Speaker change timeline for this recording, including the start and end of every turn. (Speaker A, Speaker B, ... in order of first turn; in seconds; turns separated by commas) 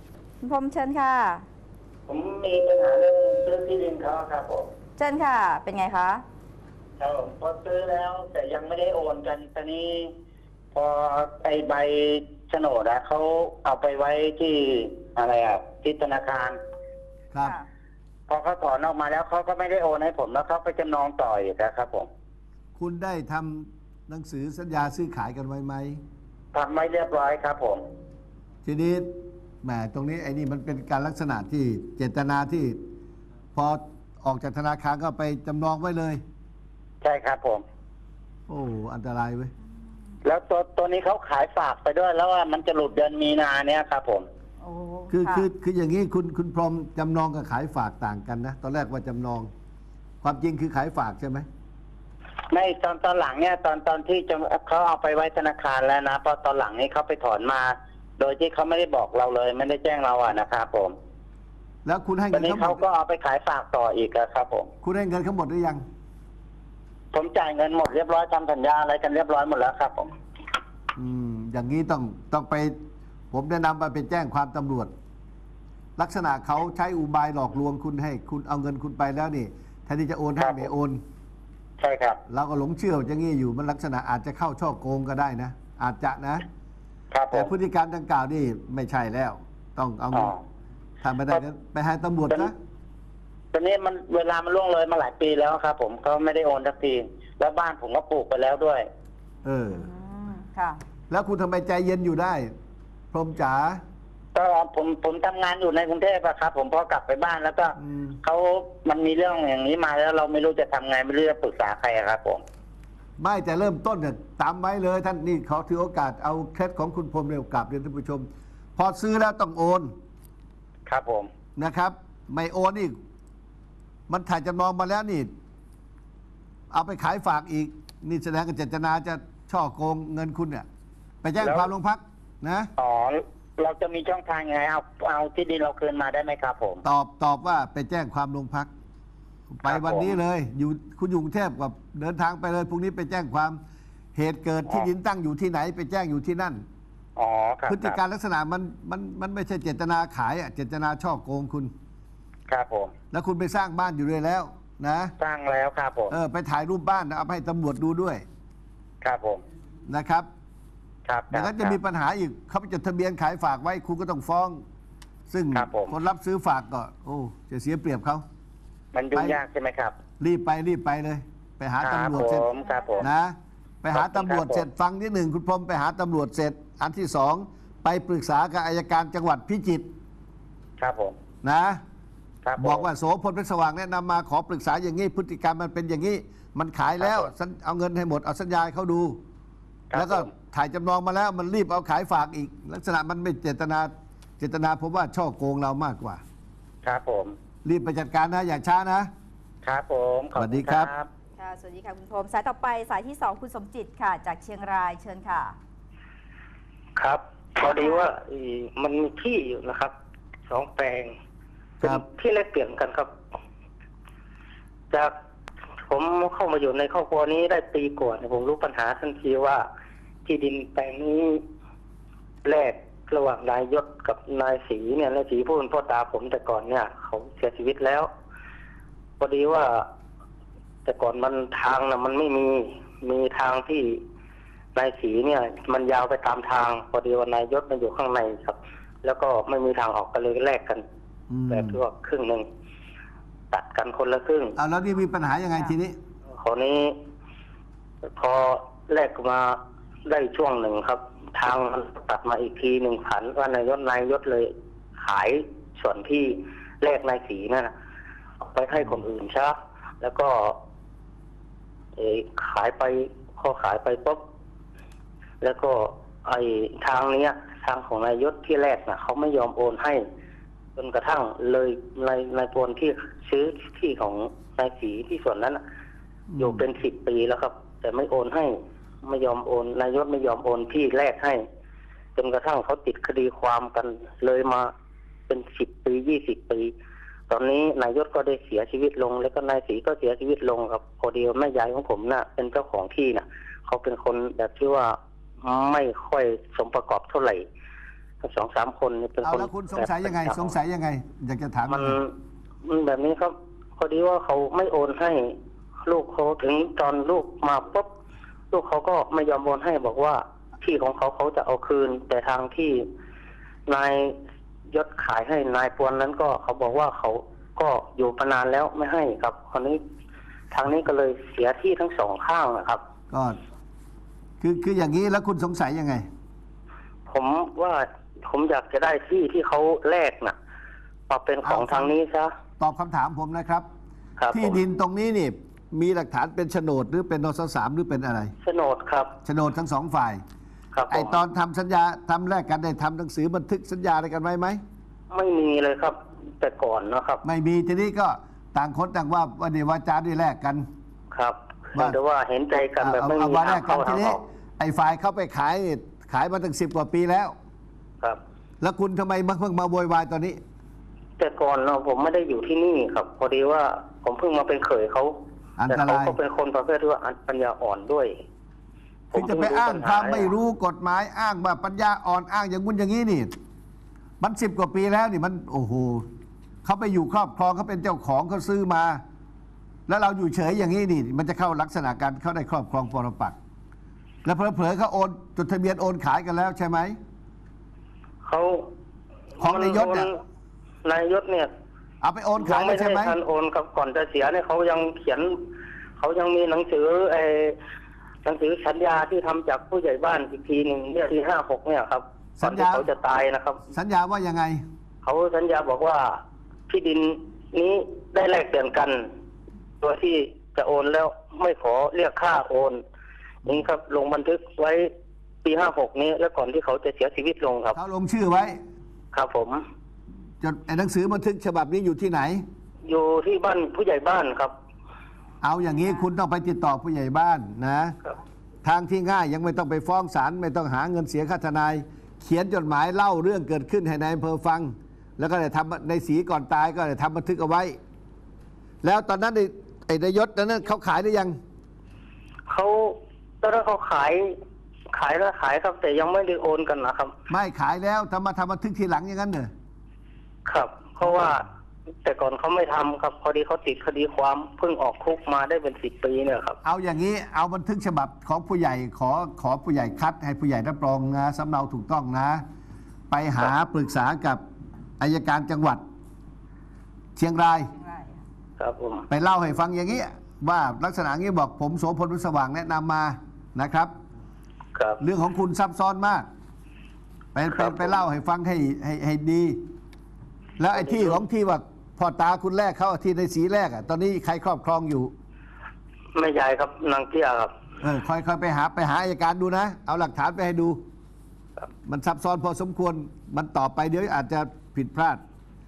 Speaker A: 0.4-1.4, Speaker B: 2.1-4.7, Speaker A: 5.0-6.2, Speaker B: 7.0-10.1, Speaker B: 10.7-16.6, Speaker C: 17.3-17.6, Speaker A: 17.4-17.7, Speaker B: 18.3-22.1, Speaker C: 22.8-26.0, Speaker B: 26.5-27.8, Speaker C: 28.6-29.1, Speaker C: 29.6-32.8, Speaker C: 33.5-36.2, Speaker B: 37.0-37.6, Speaker C: 38.5-39.5, Speaker B: 40.2-44.3, Speaker A: 44.6-45.5, Speaker C: 45.1-49.5, Speaker C: 50.2-51.5, Speaker B: 52.5-60.9, Speaker C: 61.8-62.8, Speaker B: 62.3-64.7, Speaker C: 64.8-65.8, Speaker B: 67.1-70.1, Speaker C: 70.9-72.8, Speaker C: 73.3-74.9, Speaker C: 76.0-81.0, Speaker B: 80.4-80.7, Speaker B: 81.8-82.2, Speaker C: 82.3-86.4, Speaker B: 87.1-87.5, Speaker C: 87.3-90.3, Speaker B: 90.1-90.4, Speaker C: 91.0-92.5, Speaker B: 93.5-98.9, Speaker C: 99.4-99.9, Speaker A: 99.7-100.8, Speaker C: 101.1-102.5, Speaker C: 103.1-103.8, Speaker B: 104.3-112.4, Speaker C: 107.8-108.2, Speaker C: 113.2-118.2, Speaker C: 118.8-119.9, Speaker B: 120.9-121.3, Speaker C: 121.5-122.9, Speaker C: 124.1-125.3, Speaker C: 126.7-130.7, Speaker C: 131.2-132.7, Speaker B: 131.4-131.7, Speaker B: 132.8-136.8, Speaker C: 136.8-138.7, Speaker C: 139.5-143.6, Speaker B: 139.7-140.1, Speaker C: 144.1-146.6, Speaker B: 147.2-148.0, Speaker C: 147.7-151.7, Speaker B: 152.5-152.9, Speaker C: 153.1-155.1, Speaker B: 155.2-156.1, Speaker C: 156.1-158.2, Speaker B: 159.0-159.4, Speaker C: 159.9-160.3, Speaker B: 161.1-161.8, Speaker C: 161.3-164.6, Speaker C: 165.3-168.2, Speaker B: 165.5-165.9, Speaker B: 168.9-169.9, Speaker C: 169.1-169.4, Speaker C: 170.2-172.4, Speaker B: 171.8-173.0, Speaker A: 172.1-173.1, Speaker C: 173.0-179.9, Speaker B: 173.9-174.6, Speaker B: 180.8-181.2, Speaker C: 181.4-181.8, Speaker B: 182.4-182.9, Speaker C: 182.6-189.2, Speaker B: 189.9-190.3, Speaker C: 189.9-196.2, Speaker B: 196.8-197.3, Speaker C: 197.6-199.1, Speaker B: 199.6-201.1, Speaker C: 200.3-200.9, Speaker A: 201.4-205.6, Speaker D: 206.9-209.9, Speaker A: 207.6-208.0, Speaker D: 210.5-211.2, Speaker D: 211.8-213.1, Speaker D: 215.9-219.6, Speaker D: 220.2-221.4, Speaker D: 222.4-228.1, Speaker D: 229.2-229.8, Speaker D: 230.8-234.0, Speaker D: 234.7-240.8, Speaker C: 241.3-241.8, Speaker D: 241.5-242.4, Speaker D: 243.5-244.6, Speaker C: 244.6-245.9, Speaker D: 246.3-247.0, Speaker D: 248.2-257.7, Speaker D: 258.4-260.6, Speaker D: 261.9-264.2, Speaker D: 265.4-270.0, Speaker D: 270.8-275.6, Speaker C: 276.3-276.6, Speaker D: 276.4-281.4, Speaker D: 282.1-284.7, Speaker D: 285.3-286.7, Speaker D: 287.3-297.5, Speaker D: 298.2-300.5, Speaker C: 299.2-302.0, Speaker D: 301.7-307.9, Speaker D: 308.5-312.9, Speaker D: 313.7-314.2, Speaker D: 314.7-319.8, Speaker D: 320.5-322.8, Speaker C: 323.1-323.4, Speaker C: 324.4-326.1, Speaker D: 327.1-330.4, Speaker D: 331.1-332.3, Speaker C: 331.4-331.9, Speaker C: 332.6-333.7, Speaker D: 334.2-334.6, Speaker C: 334.3-338.3, Speaker D: 338.4-339.1, Speaker C: 339.2-340.2, Speaker D: 340.7-341.2, Speaker C: 340.9-344.6, Speaker D: 345.1-347.2, Speaker C: 347.2-350.6, Speaker D: 351.1-354.2, Speaker C: 352.8-357.3, Speaker C: 358.6-360.4, Speaker D: 361.2-368.1, Speaker C: 365.6-366.2, Speaker D: 369.1-370.3, Speaker C: 369.1-373.3, Speaker C: 374.2-376.1, Speaker C: 376.6-379.0, Speaker C: 379.9-383.4, Speaker C: 384.2-387.0, Speaker D: 388.2-388.7, Speaker C: 389.4-390.1, Speaker D: 389.4-390.2, Speaker D: 390.8-391.5, Speaker C: 392.0-393.1, Speaker D: 392.4-395.4, Speaker D: 396.0-397.6, Speaker D: 398.2-403.6, Speaker C: 402.4-402.9, Speaker C: 403.7-404.6, Speaker D: 405.0-409.1, Speaker D: 409.8-412.8, Speaker D: 413.4-414.9, Speaker D: 415.4-417.8, Speaker C: 417.7-418.6, Speaker D: 419.1-419.6, Speaker C: 420.4-422.4, Speaker D: 422.9-424.5, Speaker C: 425.4-428.0, Speaker C: 428.6-437.8, Speaker C: 438.8-441.4, Speaker D: 442.5-444.3, Speaker D: 444.9-447.1, Speaker C: 447.3-449.5, Speaker D: 450.4-451.5, Speaker D: 452.0-456.6, Speaker C: 456.6-462.4, Speaker C: 463.1-464.4, Speaker C: 465.0-465.8, Speaker C: 467.1-467.7, Speaker A: 467.7-468.1, Speaker D: 468.6-469.1, Speaker C: 469.1-473.9, Speaker D: 474.7-475.0, Speaker C: 475.0-476.3, Speaker C: 477.3-479.6, Speaker D: 477.5-478.0, Speaker C: 480.6-485.1, Speaker D: 480.7-481.2, Speaker D: 486.1-487.5, Speaker C: 487.8-490.8, Speaker C: 491.9-495.2